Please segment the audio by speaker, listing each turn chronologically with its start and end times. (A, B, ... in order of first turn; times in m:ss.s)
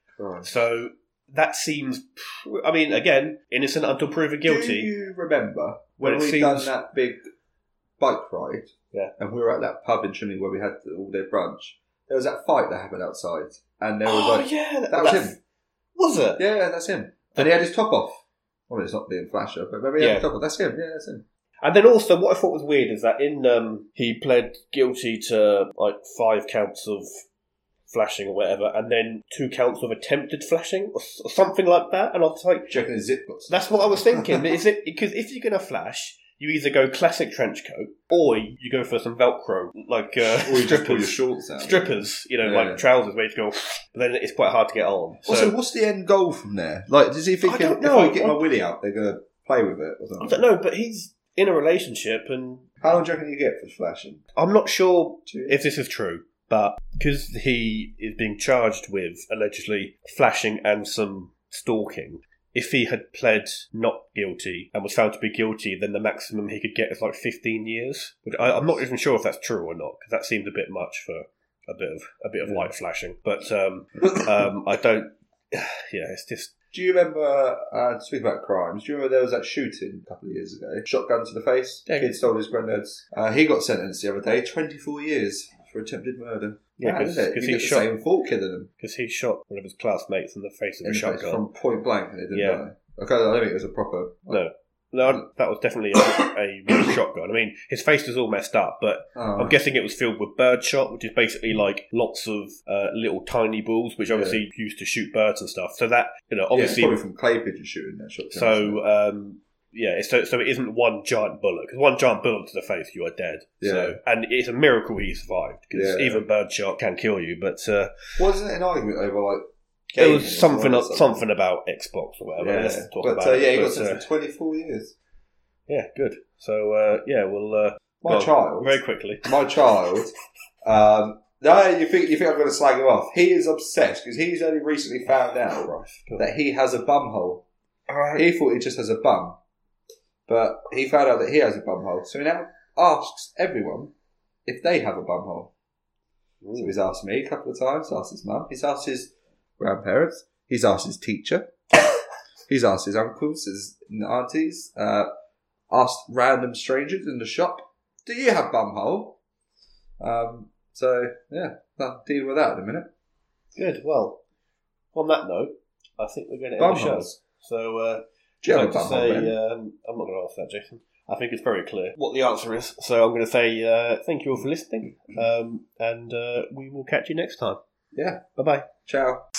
0:00.2-0:00.5 A
0:00.4-0:04.9 B
0:04.4-0:07.2 A
0:06.0-0:06.8 B
0:08.0-0:15.4 A
0:14.0-0:15.4 B
0:16.0-0:16.4 B
0:16.4-0:21.2 A
0:20.0-0:20.3 B
0:21.6-0:27.2 B
0:27.9-0:32.7 B
0:32.7-0:34.5 A
0:33.5-0:45.6 B
0:40.2-0:42.8 A
0:45.3-0:50.5 A
0:47.4-0:48.4 B
0:50.2-0:52.7 B
0:52.8-0:54.2 A
0:54.4-1:16.5 B
0:55.3-0:55.6 A
1:08.4-1:08.8 A
1:12.4-1:12.7 A
1:16.7-1:28.7 A
1:21.9-1:22.1 B
1:26.8-1:27.9 B
1:28.8-1:31.4 B
1:30.8-1:34.4 A
1:32.3-1:32.6 B
1:34.3-1:47.0 B
1:39.2-1:39.6 A
1:44.1-1:44.4 A
1:46.5-1:48.8 A
1:48.3-1:58.2 B
1:53.6-1:54.0 A
1:55.7-1:56.2 A
1:58.2-2:01.2 A
1:59.9-2:04.0 B
2:02.4-2:05.0 A
2:05.7-2:09.2 B
2:08.0-2:10.1 A
2:10.6-2:17.4 A
2:15.5-2:16.3 B
2:17.9-2:18.2 B
2:18.1-2:19.4 A
2:20.3-2:23.9 A
2:24.5-2:25.5 A
2:26.4-2:26.7 B
2:26.6-2:31.6 A
2:32.5-2:35.1 A
2:35.7-2:39.2 A
2:40.0-2:42.9 A
2:43.6-2:44.2 B
2:44.9-2:57.6 B
2:46.6-2:47.2 A
2:48.4-2:49.3 A
2:57.9-2:58.3 A
2:58.4-2:58.7 B
2:58.8-2:59.2 A